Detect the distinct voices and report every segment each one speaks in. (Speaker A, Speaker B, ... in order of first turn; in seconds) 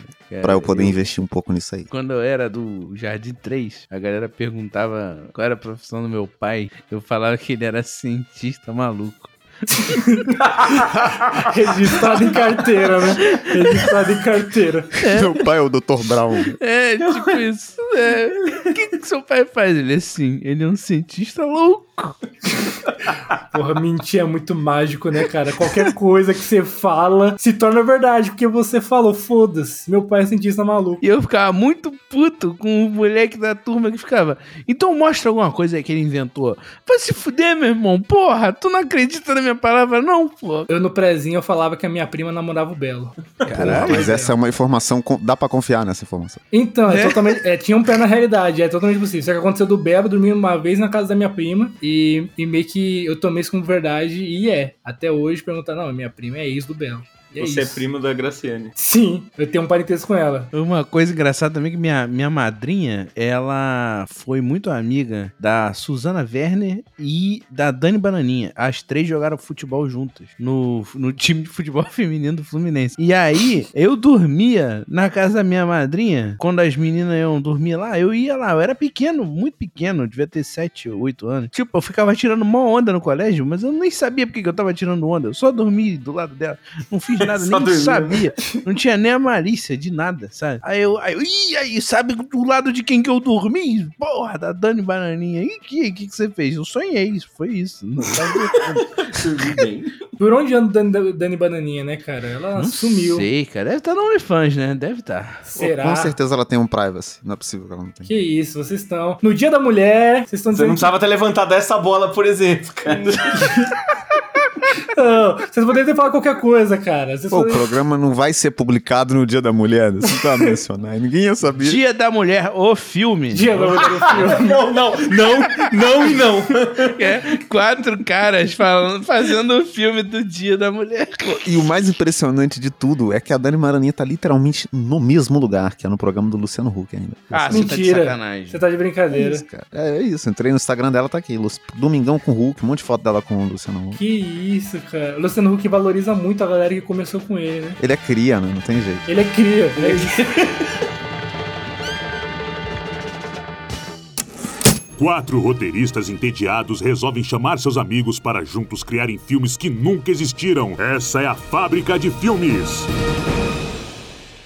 Speaker A: 0.3-1.0, 1.9-9.3, 15.0-15.4, 16.6-22.2, 31.0-40.7, 43.4-44.1, 46.9-47.2, 60.5-98.9, 102.5-105.5, 121.6-123.8, 126.9-131.5, 137.3-138.6
Speaker B: 0.4-1.9, 15.1-16.6, 43.5-46.4, 105.5-108.1, 117.3-121.8, 131.4-137.7, 139.1-144.0, 147.8-149.1
Speaker C: 9.7-10.3, 10.8-14.9, 23.5-31.0, 40.7-44.3, 46.5-57.8, 58.8-60.5, 100.2-103.3, 105.5-106.1, 108.0-110.9, 112.9-113.7, 114.8-117.7, 123.3-124.7, 137.5-139.4, 144.0-147.8, 149.1-150.2
Speaker D: 10.3-10.8, 57.4-58.7, 87.2-88.6, 98.8-100.0, 110.5-113.5, 124.1-126.9, 149.8-150.6
Speaker E: 155.0-162.9